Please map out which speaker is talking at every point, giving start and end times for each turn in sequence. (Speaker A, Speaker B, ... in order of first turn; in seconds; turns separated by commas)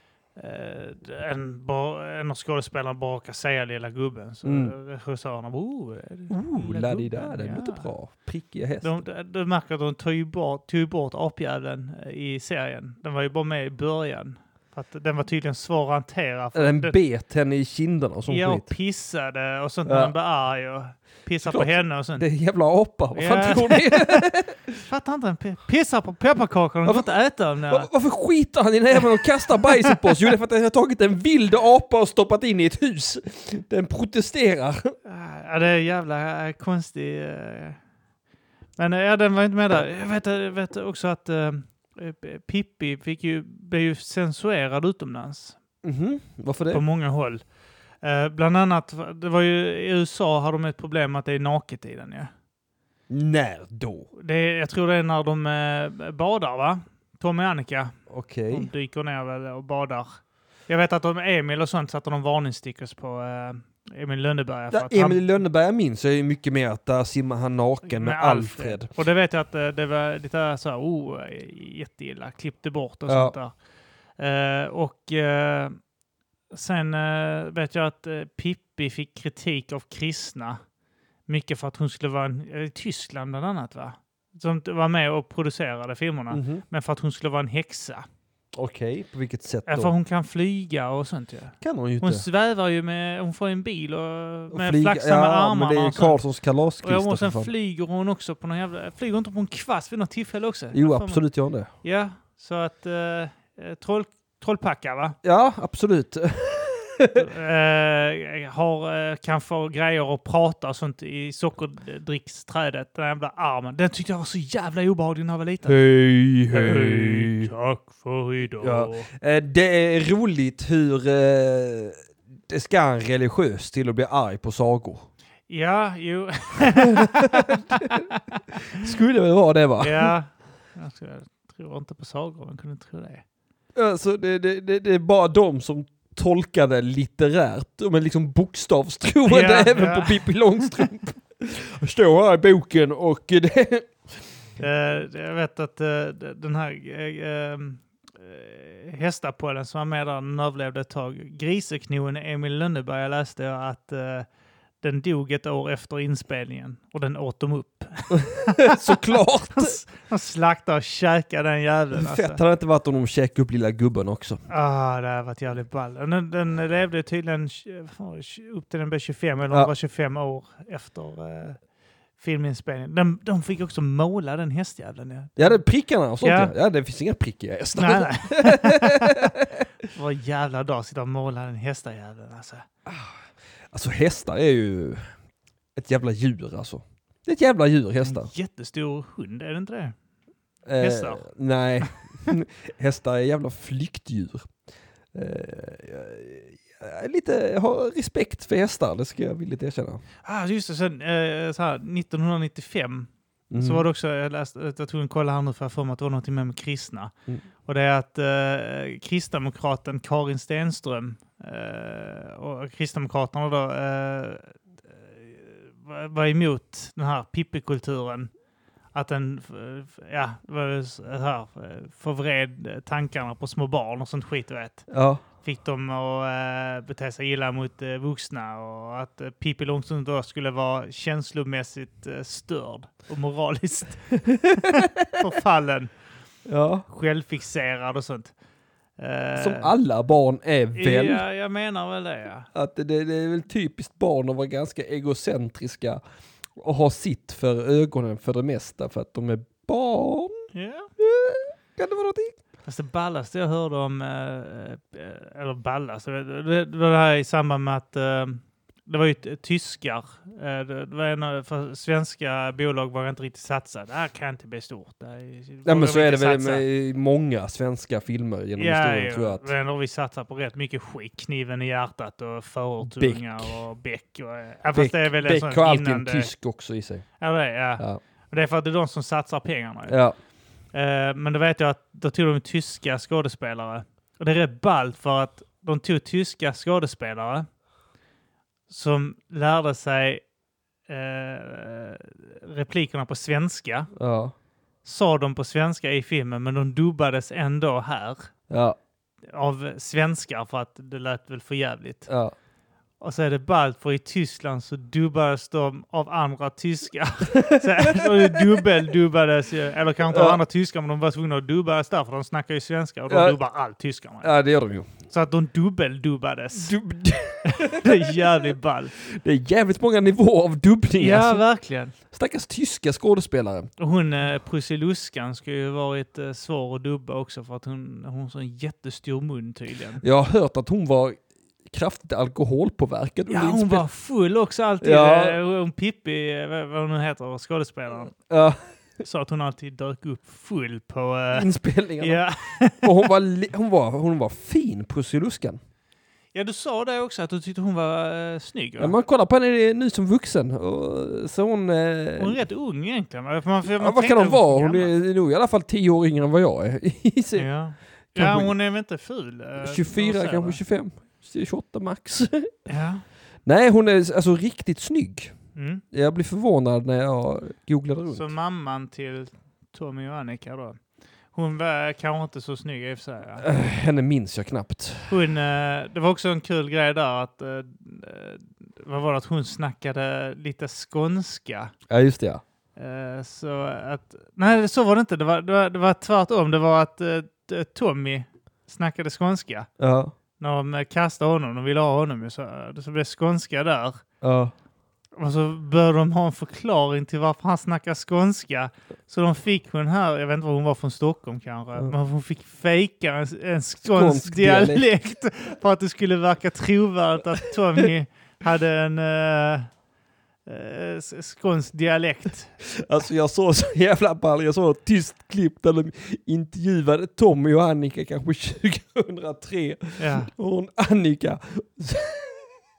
Speaker A: 0.3-7.9, Speaker B: 4.4-4.7, Speaker B: 6.3-9.0, Speaker A: 8.8-17.0, Speaker B: 16.5-18.7, Speaker A: 18.3-22.2, Speaker B: 19.9-20.1, Speaker B: 21.4-24.7, Speaker A: 23.1-24.3, Speaker A: 24.8-27.9, Speaker B: 27.7-34.9, Speaker A: 28.9-30.1, Speaker A: 35.0-37.8, Speaker A: 38.8-45.6, Speaker B: 45.8-46.8, Speaker A: 46.7-47.4, Speaker A: 48.0-52.3, Speaker B: 53.1-54.1, Speaker A: 54.2-57.9, Speaker B: 58.1-58.7, Speaker A: 58.5-60.2, Speaker A: 60.7-65.4, Speaker B: 64.7-68.9, Speaker A: 67.8-73.5, Speaker B: 73.1-73.3, Speaker A: 74.2-75.8, Speaker A: 76.5-80.6, Speaker A: 81.3-88.0, Speaker B: 86.3-86.6, Speaker B: 88.5-89.9, Speaker A: 89.7-96.2, Speaker B: 91.6-92.2, Speaker B: 94.5-97.5, Speaker A: 96.8-101.2, Speaker B: 100.7-101.7, Speaker A: 101.8-105.2, Speaker B: 105.2-107.2, Speaker A: 107.1-115.8, Speaker B: 115.6-117.5, Speaker A: 116.5-119.1, Speaker B: 118.6-122.0, Speaker B: 122.5-125.1, Speaker A: 125.5-128.2, Speaker B: 127.0-128.0, Speaker B: 128.7-130.1, Speaker A: 129.8-133.2, Speaker B: 133.7-144.0, Speaker A: 139.2-140.7, Speaker A: 144.6-154.3, Speaker A: 154.8-162.4, Speaker B: 158.1-159.8, Speaker B: 161.9-164.4, Speaker A: 164.5-171.6, Speaker A: 172.2-175.6, Speaker B: 175.4-179.3, Speaker A: 176.2-176.5, Speaker A: 177.8-179.3, Speaker A: 179.9-182.7, Speaker B: 182.8-185.0, Speaker B: 185.8-188.3, Speaker A: 188.0-189.9, Speaker B: 190.7-194.5, Speaker A: 190.8-191.3, Speaker B: 195.1-200.0, Speaker A: 200.2-207.1, Speaker B: 203.5-203.8, Speaker A: 207.6-218.3, Speaker A: 218.9-224.9, Speaker B: 224.9-225.2, Speaker A: 225.4-235.9, Speaker B: 234.3-235.1, Speaker B: 236.4-236.9, Speaker A: 236.9-238.3, Speaker A: 239.0-239.7, Speaker B: 239.4-241.2, Speaker A: 240.7-242.5, Speaker B: 242.5-246.0, Speaker B: 246.6-250.4, Speaker A: 250.5-250.9, Speaker B: 251.0-252.4, Speaker A: 252.7-266.6, Speaker B: 265.6-269.5, Speaker A: 268.6-276.3, Speaker B: 272.8-273.5, Speaker B: 274.7-277.1, Speaker A: 277.2-280.0, Speaker B: 279.9-280.1, Speaker A: 280.7-287.5, Speaker A: 288.7-290.2, Speaker A: 290.9-293.9, Speaker B: 293.9-294.3, Speaker A: 294.8-298.3, Speaker B: 298.5-298.8, Speaker A: 299.3-302.1, Speaker B: 302.1-302.3, Speaker A: 303.0-314.3, Speaker B: 307.3-308.6, Speaker B: 310.1-310.4, Speaker B: 313.1-313.4, Speaker B: 314.2-314.9, Speaker A: 315.1-316.8, Speaker B: 316.5-318.5, Speaker A: 317.4-318.9, Speaker B: 319.0-321.4, Speaker A: 321.0-321.9, Speaker B: 322.1-323.7, Speaker A: 323.8-330.0, Speaker B: 330.0-333.9, Speaker A: 333.3-338.1, Speaker B: 334.8-335.4, Speaker B: 338.3-338.6, Speaker A: 339.0-341.5, Speaker B: 341.3-342.2, Speaker A: 342.0-343.0, Speaker B: 342.8-345.6, Speaker A: 346.3-348.9, Speaker B: 348.8-352.4, Speaker A: 352.2-354.9, Speaker B: 353.8-357.5, Speaker A: 357.4-360.6, Speaker B: 358.1-358.5, Speaker B: 359.6-362.5, Speaker A: 362.7-363.0, Speaker B: 363.4-365.3, Speaker A: 365.6-365.8, Speaker B: 365.9-368.3, Speaker A: 368.1-370.8, Speaker A: 371.3-373.4, Speaker B: 373.4-375.1, Speaker A: 375.1-381.7, Speaker B: 381.9-382.4, Speaker A: 382.8-389.7, Speaker B: 389.8-390.1, Speaker A: 390.4-394.0, Speaker B: 394.2-394.5, Speaker A: 395.1-409.7, Speaker B: 403.8-404.9, Speaker A: 410.4-412.6, Speaker B: 412.8-422.4, Speaker A: 420.0-420.3